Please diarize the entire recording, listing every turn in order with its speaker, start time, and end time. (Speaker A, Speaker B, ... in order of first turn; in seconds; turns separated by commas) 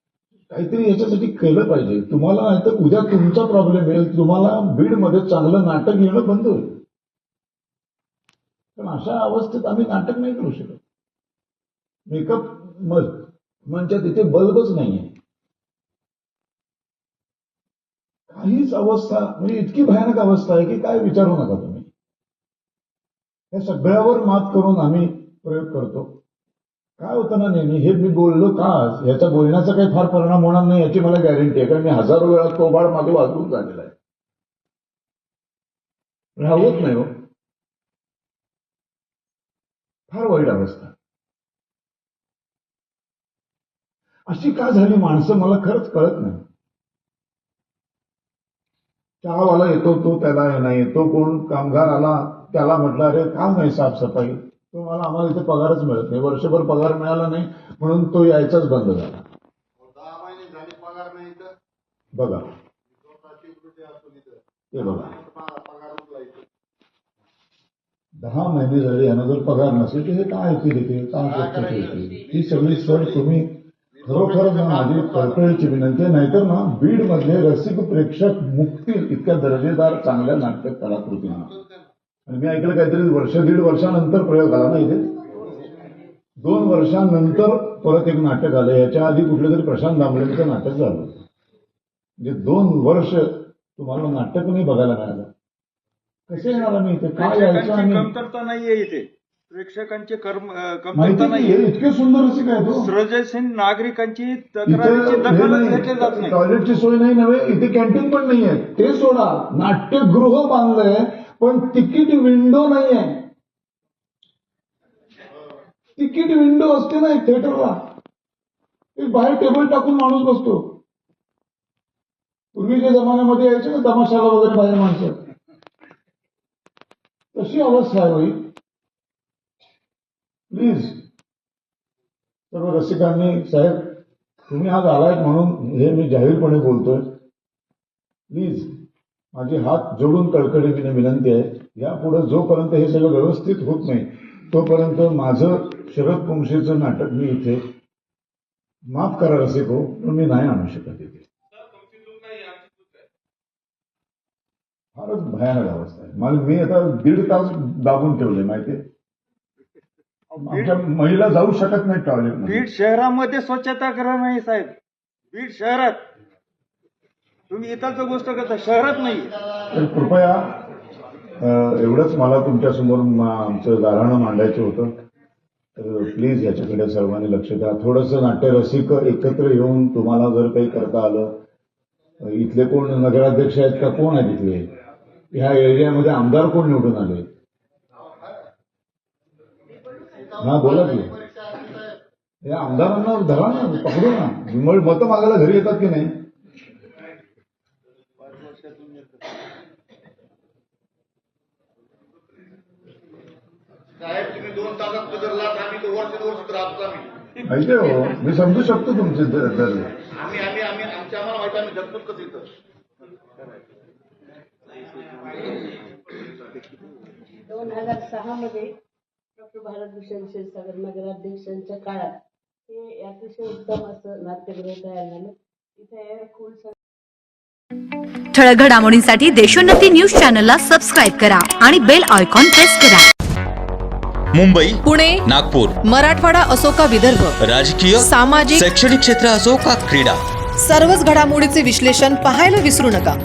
Speaker A: 0.5-6.7, Speaker A: 8.8-10.8, Speaker A: 12.1-15.1, Speaker A: 18.3-21.9, Speaker A: 23.5-26.2, Speaker A: 27.0-33.9, Speaker A: 36.4-37.1, Speaker A: 40.1-40.9, Speaker A: 44.3-46.4, Speaker A: 49.2-59.2, Speaker B: 60.0-61.5, Speaker A: 62.1-62.5, Speaker B: 63.3-64.2, Speaker A: 64.7-65.2, Speaker B: 65.3-66.4, Speaker A: 68.2-81.5, Speaker A: 82.3-85.1, Speaker A: 86.4-91.2, Speaker A: 92.2-95.3, Speaker A: 96.3-98.1, Speaker C: 96.3-101.6, Speaker A: 101.0-102.9, Speaker C: 102.7-106.4, Speaker A: 104.7-113.2, Speaker A: 116.0-117.8, Speaker A: 119.0-120.6, Speaker A: 122.5-125.2, Speaker A: 127.3-128.5, Speaker A: 130.5-131.0, Speaker A: 132.5-137.1, Speaker A: 138.3-138.7, Speaker A: 139.3-147.6, Speaker A: 148.9-151.2, Speaker C: 151.8-152.7, Speaker A: 154.9-158.8, Speaker C: 160.3-160.8, Speaker A: 160.4-162.7, Speaker C: 162.4-164.8, Speaker C: 165.3-166.1, Speaker C: 167.5-169.4, Speaker A: 169.7-170.6, Speaker A: 171.4-174.9, Speaker A: 175.8-181.3, Speaker A: 182.2-184.7, Speaker A: 185.3-187.2, Speaker A: 190.4-191.2, Speaker B: 191.3-191.8, Speaker A: 192.4-196.1, Speaker C: 198.3-198.9, Speaker B: 204.0-207.1, Speaker A: 207.4-210.0, Speaker B: 210.3-212.5, Speaker D: 217.4-218.7, Speaker D: 219.4-226.8, Speaker E: 228.3-233.1, Speaker F: 234.3-235.8, Speaker G: 234.8-235.2, Speaker G: 235.8-237.3, Speaker F: 237.4-240.2, Speaker G: 237.9-238.6, Speaker G: 240.6-243.1